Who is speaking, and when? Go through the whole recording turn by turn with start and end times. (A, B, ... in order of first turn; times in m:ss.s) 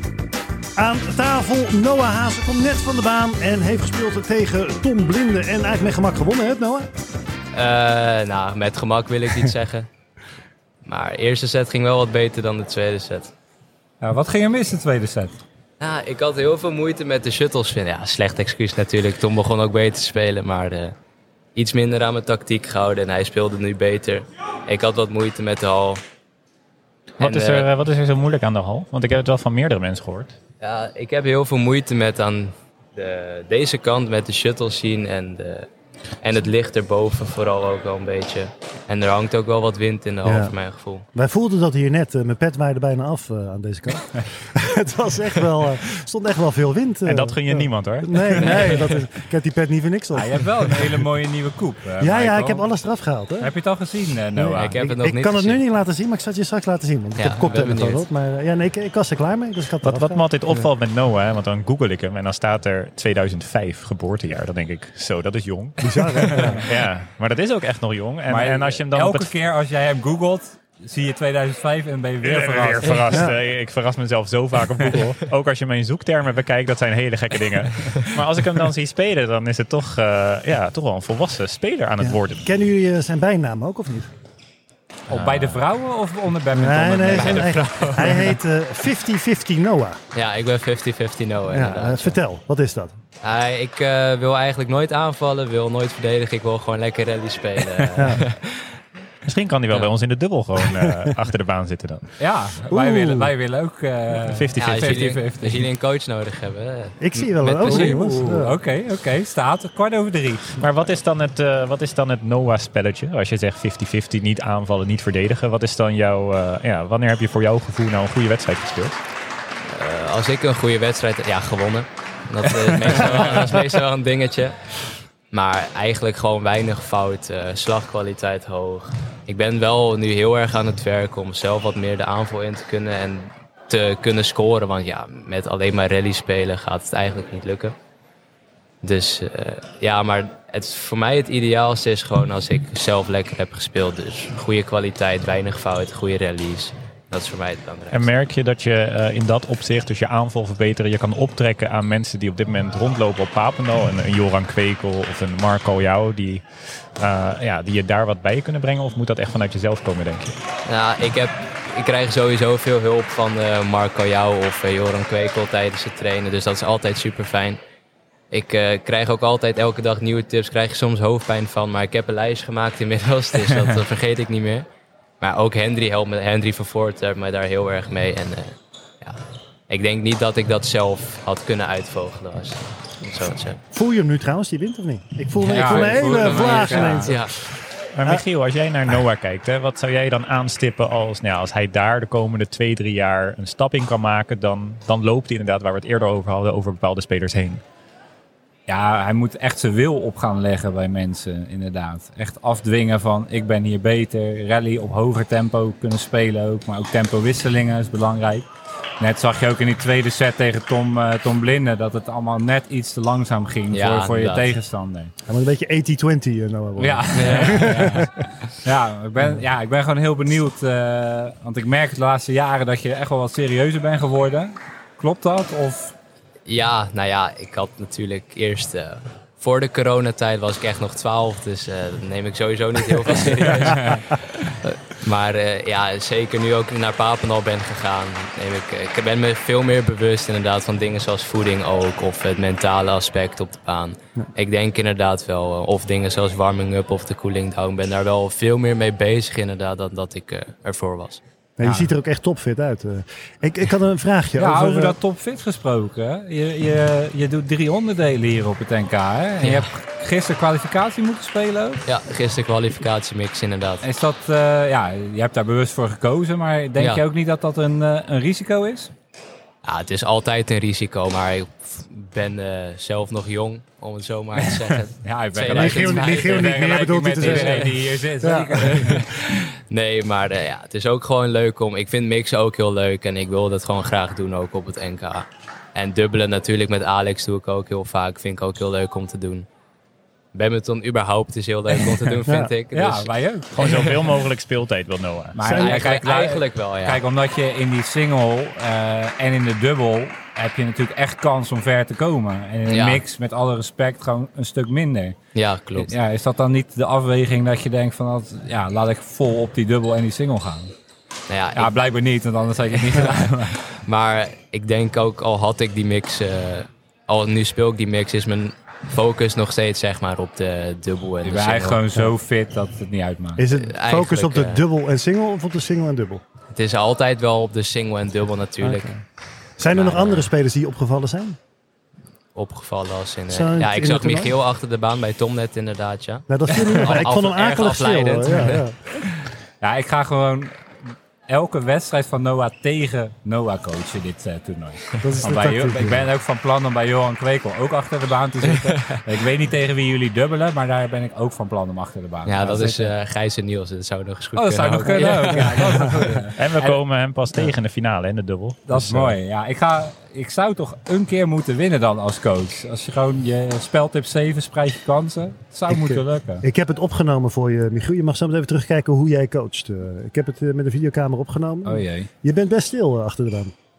0:00.8-0:06.9 A
0:07.5-0:09.9 B
0:10.8-0:13.3 B
0:14.0-0:15.4 C
0:15.8-0:20.9 B
0:21.5-0:26.0 B
0:27.2-0:30.4 D
0:27.2-0:27.7 B
0:30.6-0:35.7 B
0:36.2-0:41.0 B
0:40.2-0:40.5 A
0:41.1-0:50.9 A
0:47.0-0:48.8 D
0:48.6-0:48.9 B
0:50.1-0:52.7 C
0:52.0-0:53.5 A
0:53.4-0:54.8 C
0:54.3-1:00.6 A
0:54.5-0:55.6 B
0:57.2-0:58.0 B
0:59.8-1:09.3 D
1:05.8-1:06.7 A
1:08.3-1:13.2 C
1:12.2-1:22.5 D
1:22.0-1:24.1 A
1:25.1-1:28.0 C
1:25.1-1:25.5 B
1:26.5-1:30.0 A
1:27.1-1:28.4 B
1:30.1-1:32.2 B
1:31.5-1:32.9 A
1:33.2-1:38.8 B
1:38.0-1:38.2 A
1:39.2-1:42.1 D
1:40.8-1:41.1 A
1:42.2-1:45.6 C
1:42.7-1:43.3 A
1:44.2-1:44.9 D
1:44.6-1:48.2 B
1:47.0-1:48.6 A
1:47.6-1:50.6 C
1:50.6-1:59.0 D
1:59.7-2:04.8 B
2:05.3-2:17.7 B
2:18.8-2:28.1 B
2:27.9-2:40.4 D
2:40.6-2:47.6 B
2:48.3-2:54.6 B
2:55.2-3:03.6 B
3:03.7-3:07.5 A
3:05.4-3:07.1 C
3:05.5-3:07.3 B
3:07.9-3:17.6 D
3:18.7-3:28.5 C
3:29.0-3:35.1 C
3:33.7-3:34.5 B
3:35.3-3:38.2 A
3:36.8-3:45.9 C
3:37.1-3:38.1 B
3:46.5-4:11.9 B
3:53.6-3:54.0 C
4:11.6-4:15.0 A
4:14.4-4:21.8 C
4:19.4-4:19.7 B
4:21.8-4:23.8 B
4:23.8-4:28.9 C
4:26.8-4:27.0 B
4:29.6-4:37.8 B
4:34.5-4:39.1 C
4:35.5-4:38.9 A
4:38.5-4:49.5 B
4:50.3-4:53.1 B
4:52.7-4:54.0 C
4:53.5-4:55.4 D
4:55.3-5:05.2 C
4:55.4-4:55.8 A
4:55.4-4:57.0 B
5:02.7-5:03.0 B
5:05.3-5:05.9 B
5:05.8-5:10.7 C
5:11.3-5:11.8 B
5:11.6-5:13.6 C
5:13.7-5:21.8 B
5:21.2-5:23.4 C
5:23.4-5:26.2 A
5:23.5-5:24.6 B
5:26.5-5:28.9 B
5:28.6-5:29.0 A
5:29.6-5:31.4 A
5:29.6-5:30.3 B
5:32.3-5:39.3 B
5:33.3-5:34.3 A
5:36.3-5:38.8 A
5:39.6-5:52.9 C
5:45.0-5:46.1 A
5:48.5-5:49.0 B
5:52.2-5:56.2 B
5:54.4-5:56.8 C
5:56.4-5:58.6 D
5:58.6-6:06.4 C
5:58.8-5:59.2 A
6:05.7-6:13.5 A
6:11.6-6:12.1 C